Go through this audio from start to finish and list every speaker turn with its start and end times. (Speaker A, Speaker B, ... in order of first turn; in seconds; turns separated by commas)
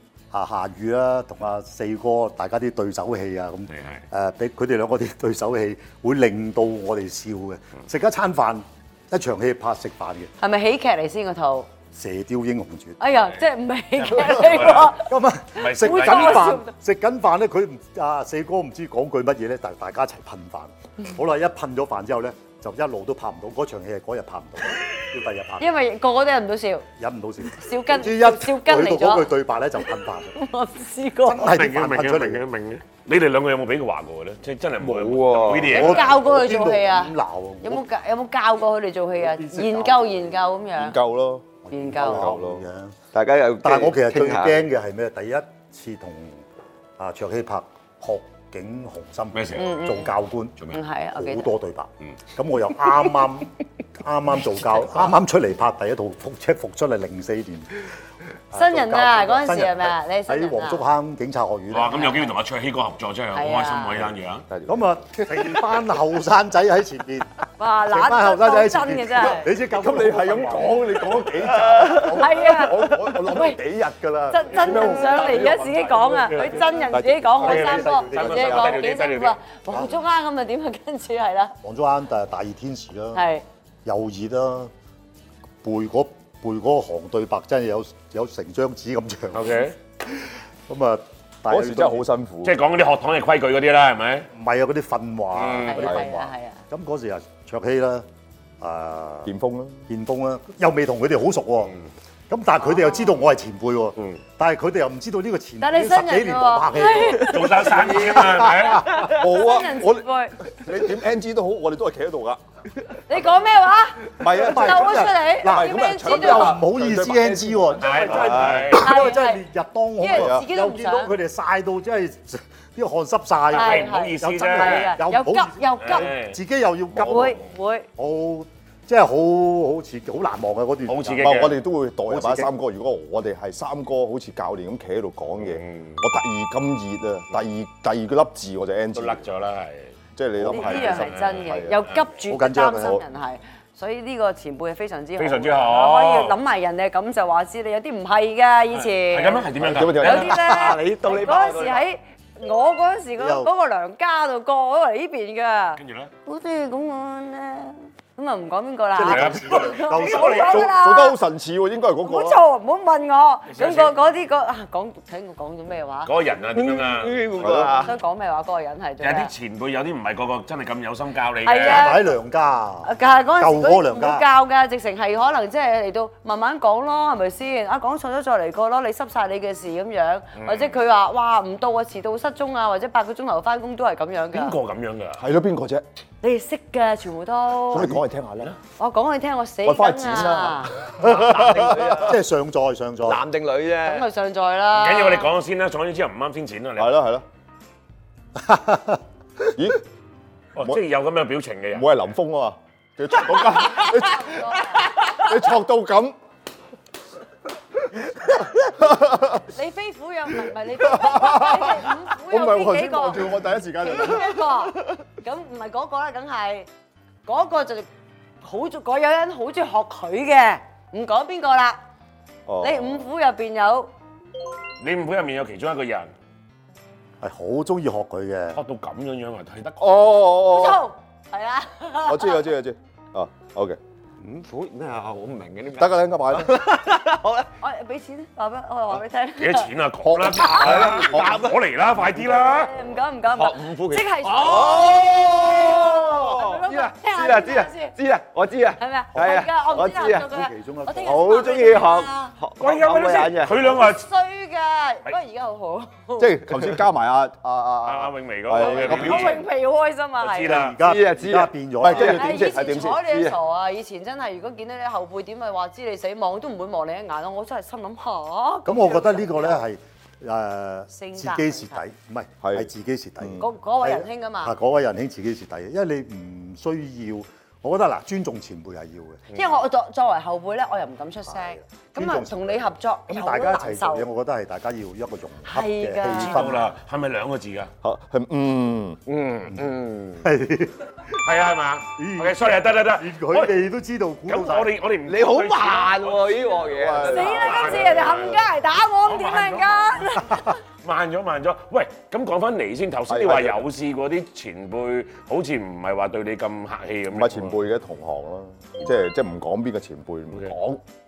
Speaker A: 0.3-10.3, Speaker B: 3.7-4.0, Speaker C: 10.4-11.7, Speaker A: 11.9-13.0, Speaker C: 13.0-16.7, Speaker B: 14.1-14.9, Speaker A: 14.4-25.7, Speaker B: 15.6-16.6, Speaker C: 25.6-26.9, Speaker A: 27.0-30.4, Speaker C: 27.5-29.3, Speaker C: 30.3-31.5, Speaker A: 31.2-32.4, Speaker B: 31.4-36.2, Speaker D: 34.8-36.0, Speaker A: 35.7-37.9, Speaker C: 35.7-41.0, Speaker A: 39.1-40.4, Speaker E: 40.8-42.6, Speaker A: 41.6-43.0, Speaker C: 41.7-42.2, Speaker D: 43.1-44.7, Speaker A: 43.6-46.5, Speaker A: 47.0-50.6, Speaker B: 49.3-49.9, Speaker C: 49.6-50.1, Speaker C: 50.7-51.5, Speaker A: 51.1-57.9, Speaker A: 58.5-62.2, Speaker C: 58.5-60.9, Speaker B: 61.7-64.5, Speaker C: 62.0-62.3, Speaker C: 63.3-64.0, Speaker E: 64.5-64.9, Speaker A: 64.7-67.3, Speaker C: 67.6-69.5, Speaker A: 67.9-71.1, Speaker E: 69.3-78.8, Speaker D: 71.7-72.2, Speaker C: 72.1-73.6, Speaker C: 74.3-81.5, Speaker B: 76.2-76.8, Speaker B: 77.4-79.4, Speaker A: 77.4-78.5, Speaker A: 81.6-83.2, Speaker C: 83.1-83.4, Speaker A: 83.8-84.7, Speaker A: 85.6-92.1, Speaker B: 89.3-89.8, Speaker E: 91.5-92.6, Speaker B: 92.4-94.3, Speaker A: 94.3-98.1, Speaker B: 95.3-95.9, Speaker C: 95.6-96.6, Speaker A: 98.6-99.3, Speaker E: 99.2-99.9, Speaker A: 99.9-101.8, Speaker A: 102.3-108.5, Speaker C: 102.6-103.2, Speaker C: 105.6-107.5, Speaker B: 107.2-109.1, Speaker C: 109.0-110.4, Speaker E: 109.0-112.4, Speaker C: 113.1-116.6, Speaker E: 114.2-118.7, Speaker A: 114.2-127.4, Speaker B: 117.8-119.0, Speaker C: 118.7-119.4, Speaker C: 120.0-121.1, Speaker E: 120.1-120.5, Speaker B: 123.5-125.0, Speaker C: 123.5-126.1, Speaker B: 125.8-126.4, Speaker E: 126.9-127.4, Speaker C: 127.0-127.9, Speaker A: 128.0-131.4, Speaker B: 130.9-131.6, Speaker E: 131.2-139.3, Speaker A: 132.1-132.5, Speaker B: 135.4-136.1, Speaker B: 138.9-139.9, Speaker E: 140.2-141.9, Speaker C: 140.5-161.2, Speaker B: 140.6-142.0, Speaker A: 142.3-143.0, Speaker E: 142.7-143.0, Speaker B: 145.2-146.4, Speaker B: 148.7-150.4, Speaker E: 149.6-150.4, Speaker D: 150.0-151.8, Speaker A: 153.2-153.5, Speaker B: 155.8-156.1, Speaker A: 158.9-160.7, Speaker B: 159.1-160.6, Speaker E: 160.2-162.4, Speaker C: 162.0-166.1, Speaker B: 163.5-163.9, Speaker B: 166.1-167.5, Speaker D: 166.5-167.9, Speaker E: 167.4-167.9, Speaker C: 167.8-169.3, Speaker B: 169.0-172.0, Speaker C: 171.4-172.1, Speaker A: 171.6-174.2, Speaker C: 172.8-184.6, Speaker B: 180.4-180.8, Speaker B: 184.3-185.2, Speaker E: 185.2-185.8, Speaker C: 186.2-187.9, Speaker E: 187.7-188.6, Speaker C: 188.7-190.8, Speaker E: 189.6-192.0, Speaker D: 191.0-192.2, Speaker A: 192.0-193.2, Speaker D: 193.0-194.1, Speaker C: 193.8-195.3, Speaker B: 194.7-196.9, Speaker E: 196.8-197.2, Speaker A: 198.4-199.0, Speaker E: 199.5-199.8, Speaker B: 200.6-201.9, Speaker E: 201.7-206.2, Speaker C: 203.7-204.9, Speaker E: 208.3-209.5, Speaker C: 209.5-216.7, Speaker E: 210.8-214.5, Speaker C: 217.3-217.9, Speaker C: 218.4-221.8, Speaker E: 222.5-223.1, Speaker C: 222.6-223.9, Speaker B: 224.8-226.1, Speaker A: 227.2-228.6, Speaker B: 228.5-230.2, Speaker E: 229.8-230.8, Speaker C: 230.4-232.5, Speaker E: 232.1-233.8, Speaker D: 234.2-237.5, Speaker E: 235.8-236.6, Speaker C: 237.6-239.7, Speaker B: 239.4-242.7, Speaker E: 240.0-241.5, Speaker D: 240.3-241.6, Speaker C: 242.4-247.9, Speaker D: 243.3-250.3, Speaker C: 248.8-252.3, Speaker A: 249.2-251.5, Speaker D: 251.0-253.9, Speaker B: 252.6-254.1, Speaker C: 253.7-256.4, Speaker E: 256.2-259.4, Speaker B: 257.9-259.4, Speaker C: 258.5-260.6, Speaker B: 260.2-260.8, Speaker A: 260.4-262.4, Speaker D: 260.8-263.4, Speaker E: 261.8-263.0, Speaker C: 262.0-269.6, Speaker A: 268.6-279.2, Speaker C: 270.9-271.8, Speaker E: 272.4-272.7, Speaker C: 273.4-274.6, Speaker B: 279.3-279.6, Speaker C: 279.3-284.1, Speaker A: 281.3-286.7, Speaker C: 285.5-286.6, Speaker B: 286.0-287.7, Speaker E: 287.8-289.0, Speaker D: 289.1-290.3, Speaker A: 290.2-290.8, Speaker B: 291.2-293.6, Speaker A: 292.0-294.8, Speaker B: 294.3-296.7, Speaker D: 295.1-297.7, Speaker E: 296.7-298.4, Speaker C: 297.0-300.6, Speaker B: 297.2-298.4, Speaker B: 299.0-307.6, Speaker E: 303.1-303.7, Speaker E: 307.1-310.8